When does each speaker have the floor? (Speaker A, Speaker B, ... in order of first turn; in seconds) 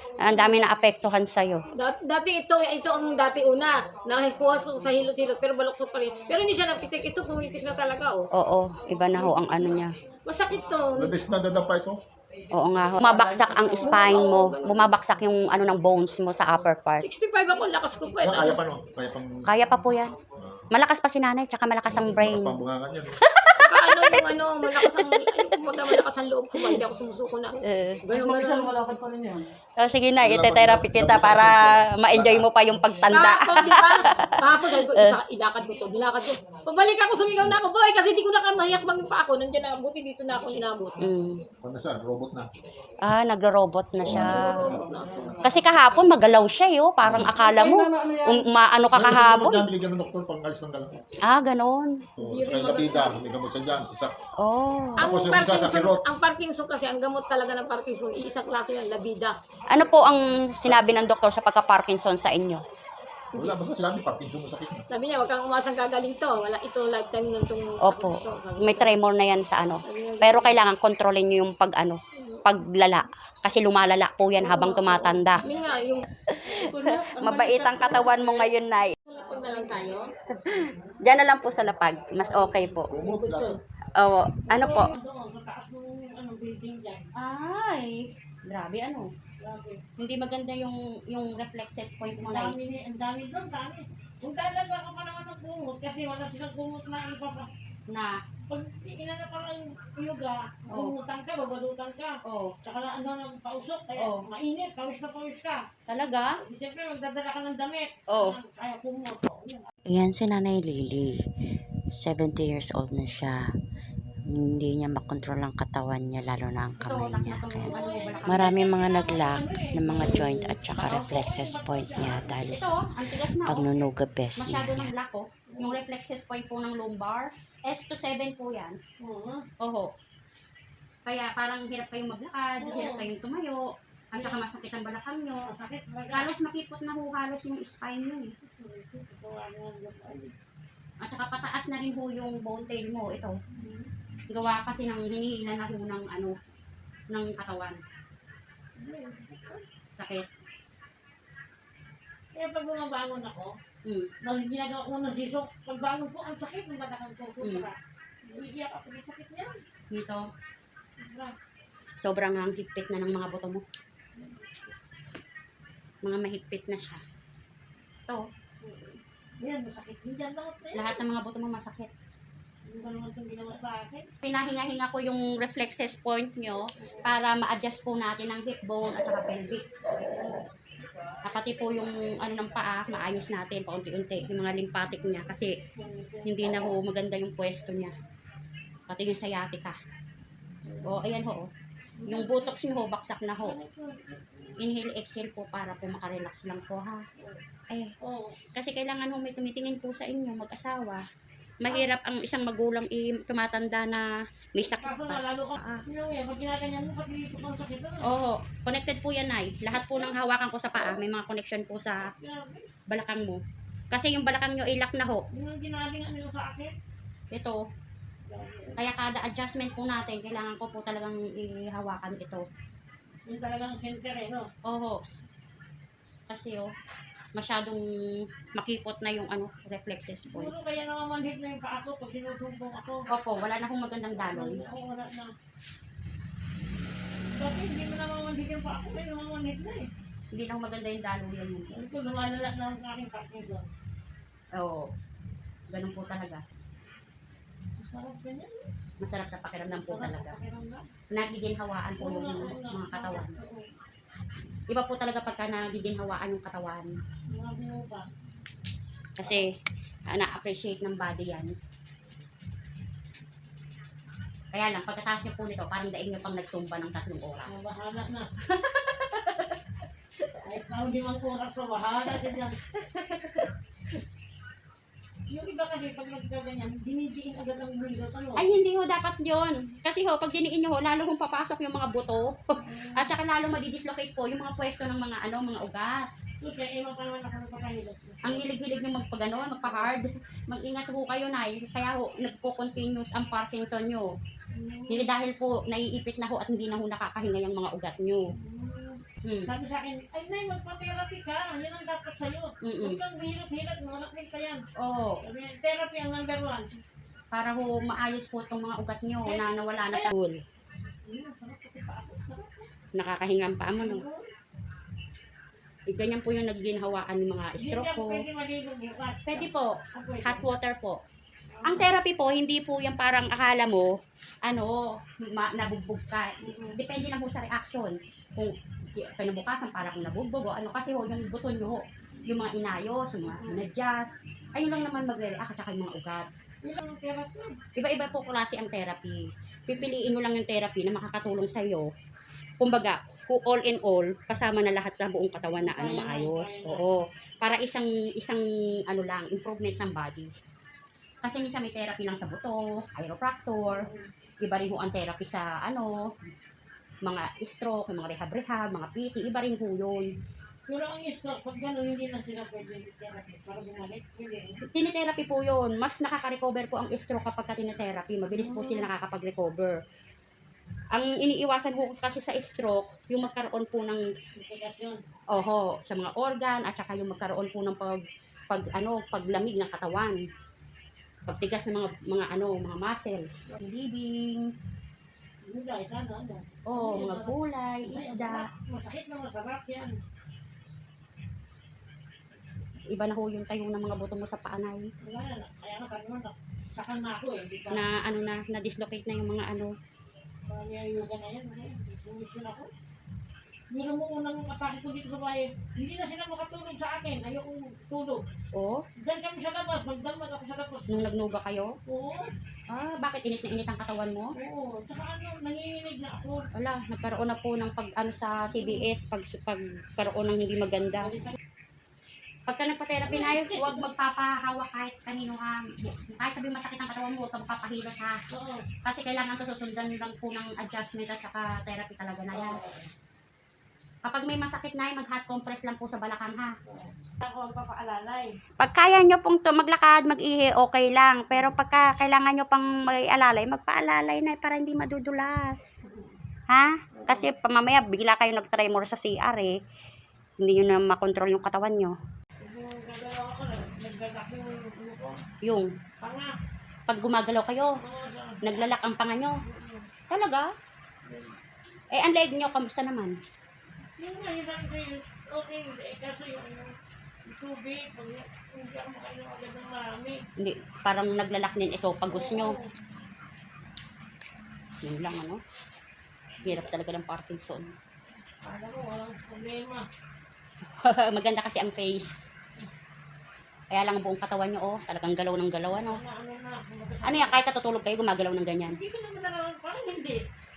Speaker A: 0.2-1.6, 8.3-9.9, 12.5-17.0, 19.5-20.1, 20.7-22.6, 23.2-25.6, 27.6-28.0, 29.8-35.2, 41.0-41.4, 43.0-44.8, 45.4-49.6, 51.2-52.0, 54.4-55.1, 59.7-62.6, 67.8-75.5, 76.4-79.0, 80.3-82.9, 84.0-84.9, 87.1-89.1, 90.0-92.5, 97.9-98.2, 102.2-102.5, 104.0-104.2, 105.9-106.3, 108.1-108.4, 116.8-118.6, 120.8-121.1, 122.5-123.7, 124.3-128.8, 129.6-129.9, 131.1-135.4, 136.1-138.3, 141.0-143.3, 144.3-146.3, 147.1-147.8, 149.9-150.2, 157.4-157.7, 159.9-160.3, 162.0-163.6, 166.0-167.0, 170.7-171.9, 174.2-179.6, 181.2-185.5, 186.2-187.9, 188.9-189.8, 190.8-191.5, 192.1-193.6, 194.6-197.0, 198.5-201.0, 201.6-204.1, 204.6-205.8, 208.0-212.1, 212.9-213.4, 213.9-215.2, 217.3-217.6, 218.8-222.4, 224.6-225.0, 226.3-226.7, 227.3-227.8, 228.6-230.5, 233.1-234.6, 240.3-241.7, 244.5-244.9, 245.7-246.4, 249.0-250.4, 251.1-253.3, 254.7-256.9, 259.2-259.5, 260.1-261.5, 264.5-267.5, 268.6-269.6, 272.7-273.5, 278.4-286.1, 288.2-294.1, 294.9-298.2, 302.6-303.0, 304.8-305.2, 307.3-310.4, 312.9-314.0, 315.9-318.2, 319.3-321.0, 321.6-323.9, 324.4-336.3, 337.8-341.9, 342.6-350.3, 351.2-353.8, 354.4-356.0, 357.0-360.1, 364.7-369.8, 370.9-374.0, 375.3-380.2, 381.3-384.5, 386.7-388.5, 392.9-394.9, 397.7-399.7, 408.5-408.8, 410.9-411.7, 412.7-414.3, 416.5-421.1, 422.5-428.2, 428.8-432.6, 434.0-436.5, 438.6-445.8, 446.5-449.6, 450.4-451.9, 455.4-455.7, 456.9-457.7, 458.4-459.3, 460.1-460.5, 461.9-463.2, 470.4-472.6, 474.8-475.4, 476.4-477.7, 480.8-482.2, 483.7-486.0, 487.0-488.8
Speaker B: 0.3-0.6, 84.5-87.0, 89.4-89.8, 92.1-97.5, 98.5-105.6, 106.4-109.7, 117.7-122.3, 125.5-125.8, 129.0-129.4, 132.6-133.1, 134.1-134.4, 135.5-136.3, 138.4-140.3, 143.5-143.9, 148.8-149.6, 152.3-153.5, 154.2-159.6, 161.0-161.3, 164.2-164.7, 168.6-171.0, 172.7-174.1, 176.8-177.1, 180.0-180.3, 185.7-186.3, 190.6-191.0, 192.0-192.5, 193.4-194.6, 198.0-198.4, 204.6-208.1, 212.1-212.7, 215.3-216.7, 218.3-218.8, 223.3-224.5, 230.3-233.0, 234.2-235.3, 237.3-239.9, 241.7-243.7, 247.8-248.7, 249.7-250.8, 252.0-253.7, 257.3-258.1, 267.5-268.3, 270.4-272.6, 275.3-278.4, 282.6-283.1, 286.4-288.4, 294.5-295.1, 298.4-304.6, 305.2-306.7, 309.3-310.1, 311.1-312.7, 313.8-314.2, 317.6-320.4, 321.5-321.9, 326.4-326.8, 333.4-333.6, 336.6-337.6, 345.6-346.8, 353.7-354.1, 360.7-364.6, 368.3-368.9, 374.4-375.0, 385.5-387.3, 387.9-390.0, 395.0-397.8, 400.5-402.7, 403.7-408.2, 409.0-411.0, 411.9-412.3, 414.4-416.4, 418.5-418.9, 421.0-421.4, 423.1-423.8, 428.3-428.6, 432.3-432.9, 436.7-438.3, 447.0-447.2, 452.4-455.2, 456.0-456.3, 457.8-458.6, 459.4-459.9, 461.1-461.3, 464.0-466.7, 467.2-470.2, 472.1-472.7, 478.4-479.9, 485.9-487.4, 488.7-490.2
Speaker C: 1.8-8.3, 9.4-11.1, 13.8-14.9, 17.0-18.6, 23.6-28.7, 33.1-41.0, 44.0-45.4, 52.2-53.2, 55.0-59.4, 64.9-68.9, 69.8-70.6, 74.4-76.0, 77.9-78.3, 79.0-80.1, 83.0-83.6
Speaker D: 10.9-12.0, 18.2-19.4, 21.9-23.1, 30.2-32.6, 41.6-42.5, 44.0-44.9, 47.0-47.3, 48.9-51.0, 52.2-54.1, 55.0-56.0, 63.3-64.8, 82.9-83.6
Speaker E: 13.0-14.1, 28.1-29.4, 47.1-48.5, 76.5-78.4
Speaker F: 109.9-111.2, 112.0-113.5, 114.3-122.7, 123.5-124.9